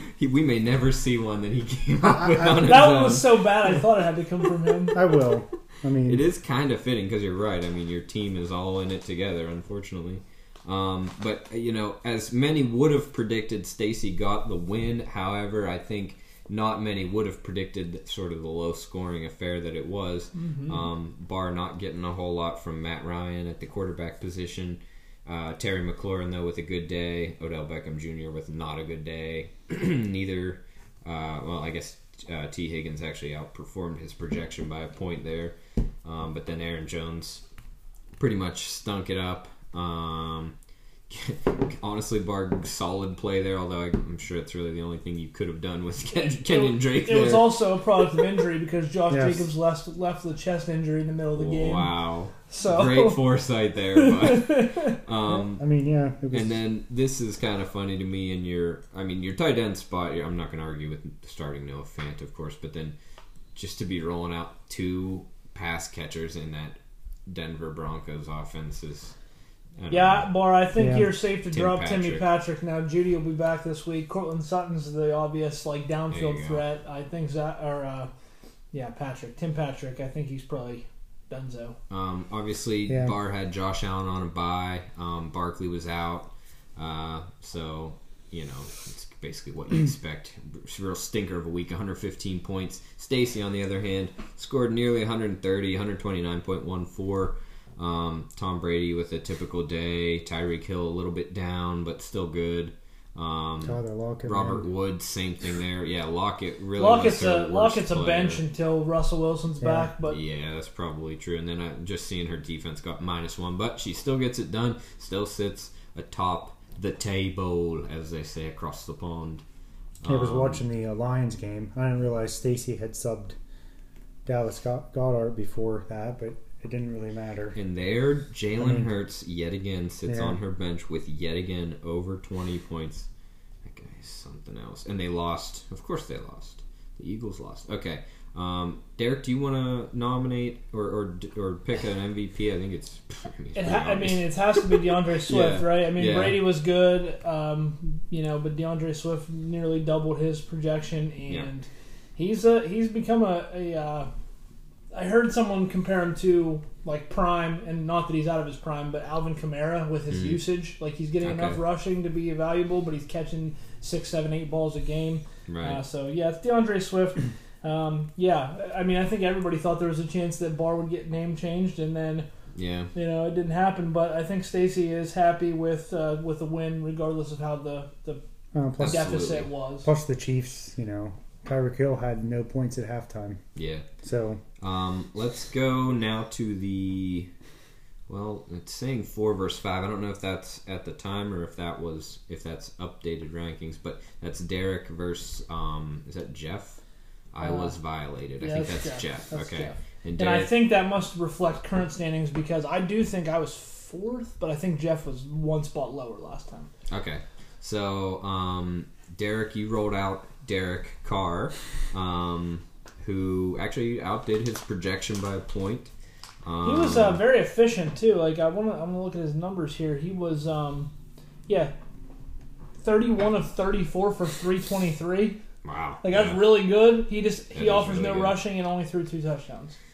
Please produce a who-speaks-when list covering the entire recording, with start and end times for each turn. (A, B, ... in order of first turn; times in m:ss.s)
0:00.2-0:03.4 A
0:02.0-0:02.8 B
0:02.6-0:05.0 C
0:04.9-0:06.2 B
0:06.0-0:37.4 A
0:20.4-0:20.9 C
0:38.2-0:40.5 A
0:41.1-0:47.6 A
0:46.5-0:51.9 C
0:49.1-0:49.5 B
0:51.4-0:55.6 A
0:52.5-0:53.2 C
0:54.0-0:55.0 C
0:55.3-0:56.6 B
0:56.3-1:03.0 A
1:03.6-1:09.1 A
1:09.8-1:10.3 A
1:09.9-1:18.1 C
1:10.8-1:11.1 B
1:11.5-1:12.2 A
1:16.1-1:16.6 A
1:18.7-1:21.8 C
1:21.9-1:48.4 A
1:22.9-1:23.1 B
1:43.6-1:44.6 B
1:46.8-1:50.2 C
1:49.6-1:49.9 B
1:50.1-1:59.4 A
2:00.0-2:00.6 A
2:00.1-2:03.4 B
2:04.2-2:07.6 B
2:07.6-2:13.1 A
2:08.6-2:08.9 B
2:10.1-2:10.4 B
2:13.6-2:26.4 A
2:23.6-2:34.1 C
2:34.9-2:52.3 C
2:40.1-2:40.4 A
2:41.2-2:41.6 A
2:45.5-2:45.8 A
2:52.6-2:52.9 A
2:52.9-2:58.2 C
2:58.5-2:59.2 B
2:58.8-2:59.5 A
2:58.8-2:59.9 C
2:59.8-3:03.4 B
3:03.6-3:03.8 A
3:04.0-3:04.4 B
3:04.6-3:07.3 A
3:08.1-3:16.8 A
3:17.3-3:20.6 A
3:18.4-3:26.7 C
3:26.9-3:35.9 A
3:36.4-3:37.2 A
3:36.6-3:40.9 C
3:41.5-3:41.7 C
3:42.8-3:45.4 C
3:45.6-3:46.6 A
3:46.0-3:49.8 C
3:47.6-3:48.4 A